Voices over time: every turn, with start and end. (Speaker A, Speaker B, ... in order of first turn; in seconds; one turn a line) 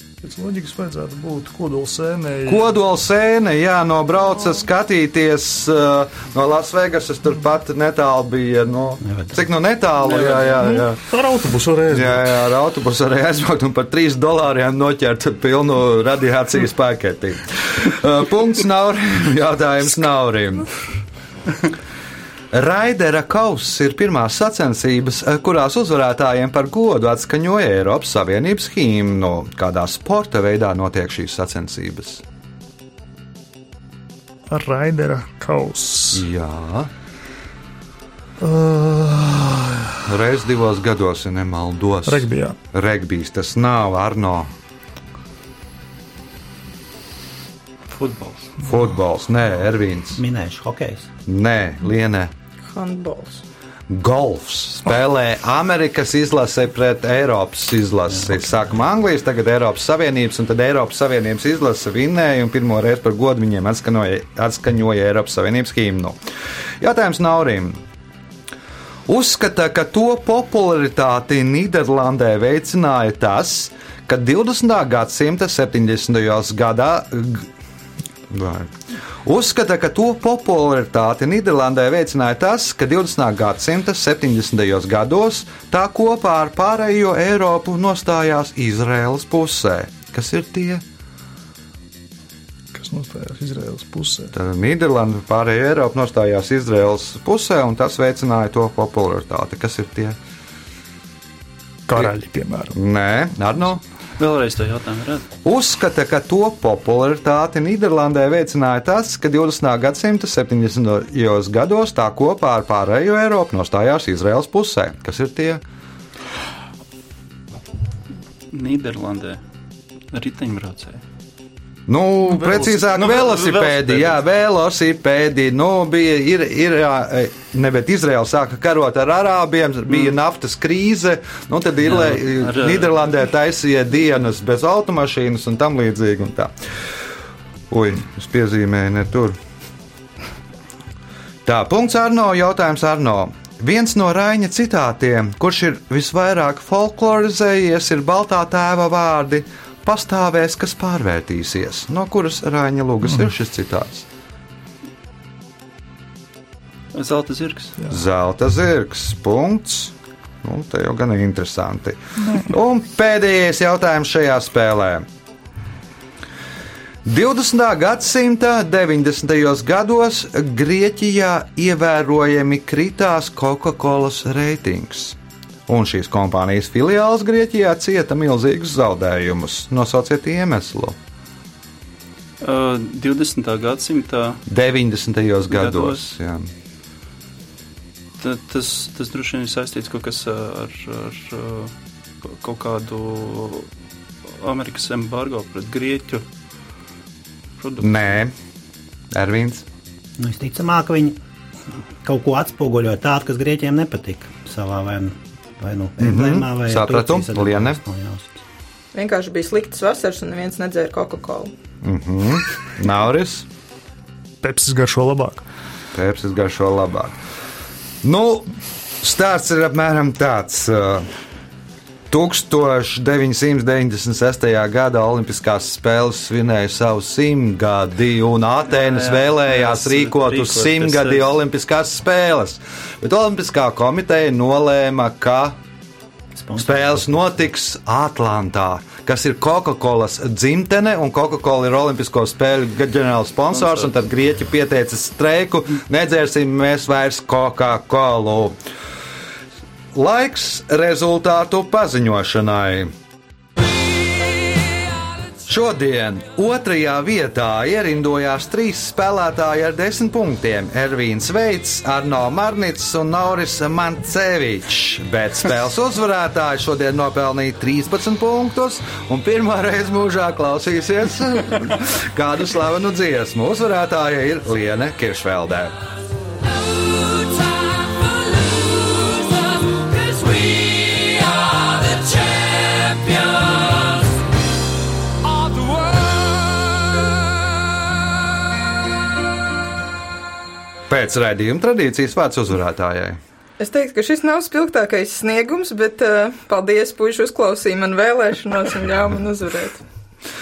Speaker A: 0.2-2.7
Speaker B: 2.5-11.0
Speaker C: 9.0-9.4
Speaker D: 10.1-10.5
Speaker A: 10.6-12.4
Speaker B: 11.9-20.7
Speaker B: 22.5-32.2
Speaker A: 34.5-36.2
Speaker B: 36.1-36.9
Speaker A: 38.4-40.0
Speaker B: 40.1-44.5
Speaker A: 42.1-42.6
Speaker D: 47.9-48.5
Speaker B: 48.6-50.2
Speaker C: 50.1-51.1
Speaker B: 51.3-52.3
Speaker E: 52.7-53.4
Speaker B: 53.9-66.2
Speaker B: 66.8-67.8
Speaker B: 69.1-77.5
Speaker B: 78.3-78.7
Speaker B: 79.2-90.8
Speaker A: 92.7-94.3
Speaker B: 94.3-100.2
Speaker A: 101.9-102.8
Speaker B: 102.7-103.8
Speaker D: 104.2-105.3
Speaker B: 105.5-115.6
Speaker D: 118.5-119.4
Speaker D: 120.1-121.0
Speaker B: 121.9-136.5
Speaker D: 123.0-124.2
Speaker D: 131.9-133.0
Speaker B: 137.7-139.4
Speaker B: 141.4-154.1
Speaker D: 156.9-157.8
Speaker B: 157.9-165.1
Speaker B: 167.1-181.0
Speaker D: 182.4-184.4
Speaker B: 184.5-186.5
Speaker D: 185.5-186.1
Speaker D: 188.2-193.7
Speaker D: 194.3-196.2
Speaker D: 197.6-198.1
Speaker B: 197.8-198.3
Speaker B: 199.1-199.7
Speaker C: 200.2-201.2
Speaker C: 202.0-208.4
Speaker B: 206.0-207.8
Speaker E: 208.9-211.5
Speaker B: 211.8-213.5
Speaker A: 214.4-215.5
Speaker B: 215.9-217.2
Speaker B: 218.0-221.1
Speaker B: 222.1-235.6
Speaker D: 228.7-231.3
Speaker C: 236.4-237.1
Speaker B: 236.6-248.6
Speaker B: 249.9-252.9
Speaker B: 255.4-275.8
Speaker B: 280.1-281.4
Speaker B: 282.7-283.3
Speaker B: 290.9-293.2
Speaker E: 293.6-299.8